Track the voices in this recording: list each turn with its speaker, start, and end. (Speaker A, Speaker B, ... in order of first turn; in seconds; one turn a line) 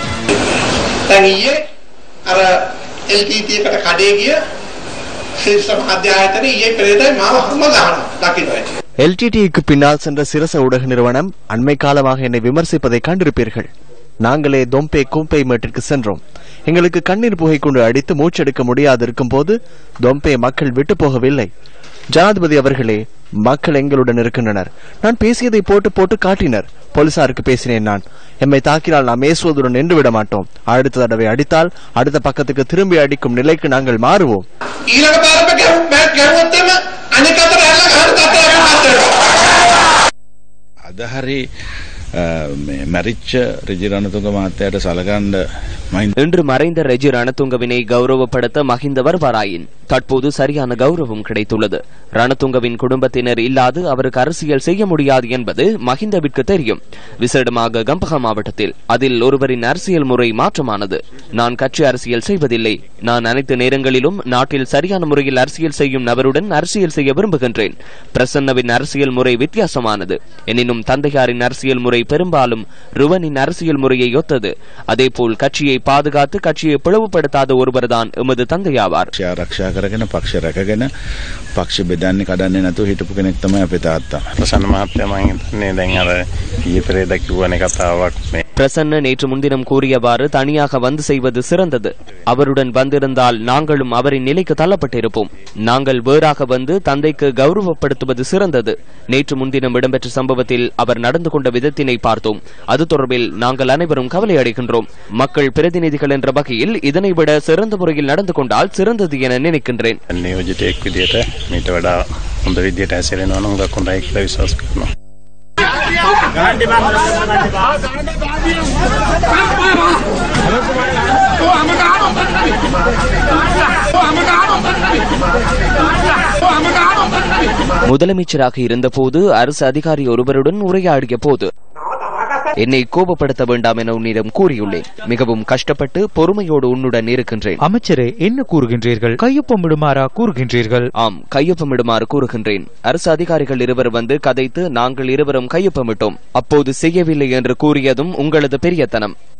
Speaker A: 1.1-1.6
Speaker A: 2.3-4.4
Speaker A: 5.4-8.7
Speaker B: 9.0-13.7
Speaker B: 14.2-21.5
Speaker B: 22.1-34.4
Speaker A: 34.9-39.2
Speaker C: 40.9-41.4
Speaker C: 42.2-45.4
Speaker D: 46.2-79.1
Speaker C: 79.1-80.9
Speaker C: 81.5-84.3
Speaker E: 84.4-88.4
Speaker D: 88.5-110.0
Speaker E: 110.1-114.9
Speaker D: 127.8-131.5
Speaker D: 132.6-137.6
Speaker F: 137.6-140.9
Speaker D: 141.0-149.1